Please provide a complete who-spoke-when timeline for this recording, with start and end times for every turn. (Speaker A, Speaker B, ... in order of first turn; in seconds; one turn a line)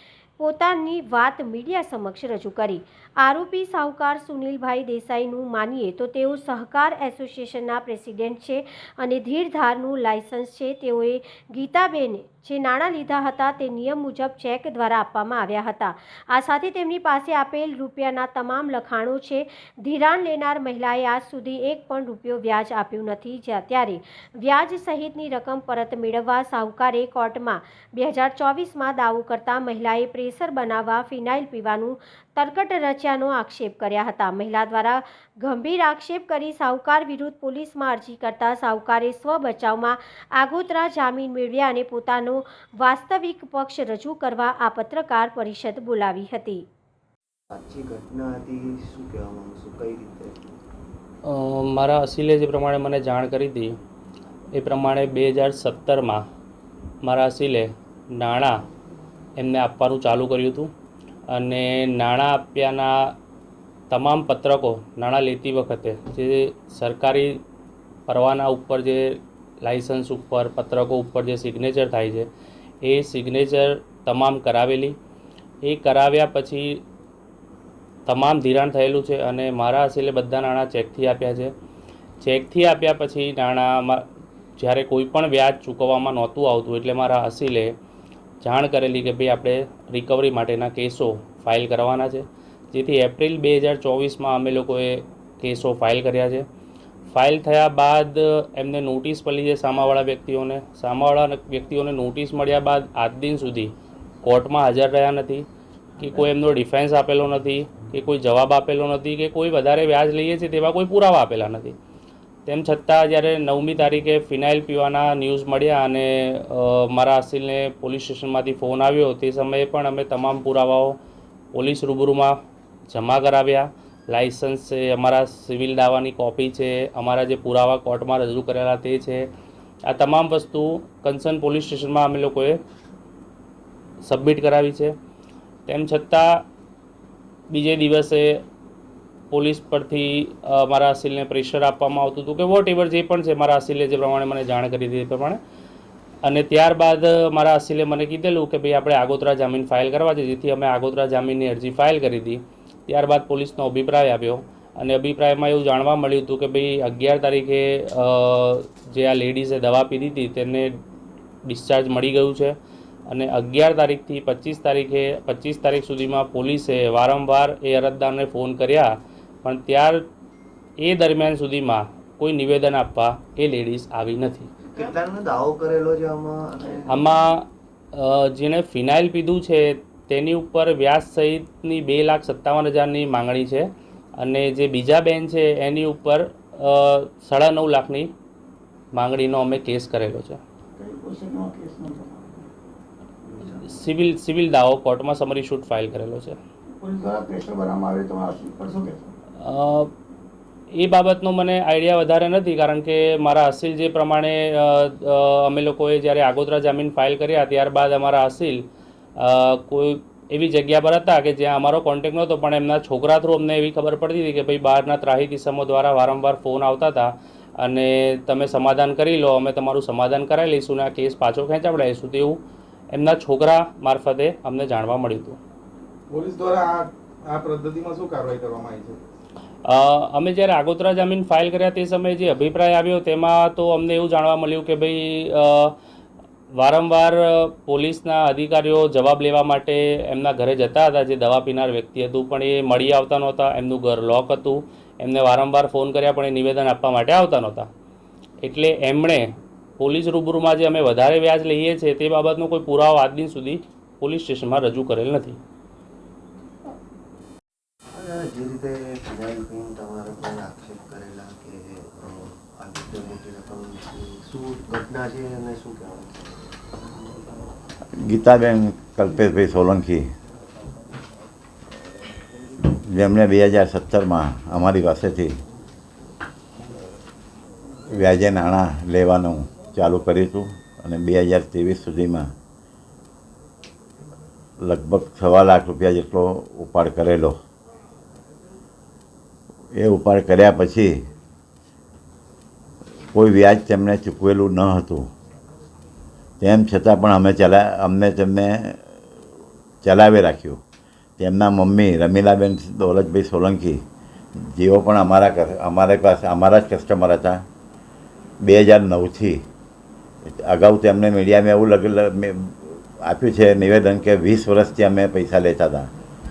Speaker A: 0.4-46.6
Speaker B: 47.5-50.4
Speaker C: 51.3-53.8
Speaker C: 54.5-56.2
Speaker C: 57.0-58.6
Speaker C: 59.4-60.7
Speaker C: 61.3-63.1
Speaker C: 63.9-67.4
Speaker C: 68.1-72.3
Speaker C: 72.8-75.0
Speaker C: 75.6-76.8
Speaker C: 78.1-81.5
Speaker C: 82.2-84.0
Speaker C: 84.6-87.7
Speaker C: 88.4-96.5
Speaker C: 97.1-105.5
Speaker C: 106.0-111.8
Speaker C: 112.5-121.0
Speaker C: 121.5-122.3
Speaker C: 122.9-129.3
Speaker C: 129.9-132.6
Speaker C: 134.0-134.9
Speaker C: 135.7-136.4
Speaker C: 137.5-138.4
Speaker C: 139.3-145.4
Speaker C: 146.2-160.7
Speaker C: 161.5-162.6
Speaker C: 163.1-170.1
Speaker C: 170.8-174.5
Speaker B: 174.7-177.0
Speaker C: 176.9-188.1
Speaker C: 188.9-190.4
Speaker D: 190.8-192.5
Speaker B: 193.3-193.6
Speaker C: 193.6-196.4
Speaker D: 196.8-199.1
Speaker C: 199.4-199.9
Speaker C: 200.7-208.6
Speaker C: 209.2-222.4
Speaker C: 222.9-225.4
Speaker E: 226.1-229.0
Speaker C: 229.7-235.8
Speaker C: 236.5-247.7
Speaker C: 248.4-249.3
Speaker C: 249.8-255.4
Speaker B: 257.9-267.2
Speaker F: 268.0-270.1
Speaker F: 272.7-275.4
Speaker F: 277.9-282.3
Speaker F: 284.6-287.4
Speaker F: 289.7-291.1
Speaker F: 293.1-295.1
Speaker F: 296.4-298.8
Speaker F: 299.8-300.6
Speaker F: 301.2-303.8
Speaker F: 304.4-307.4
Speaker F: 308.4-309.4
Speaker F: 310.3-315.9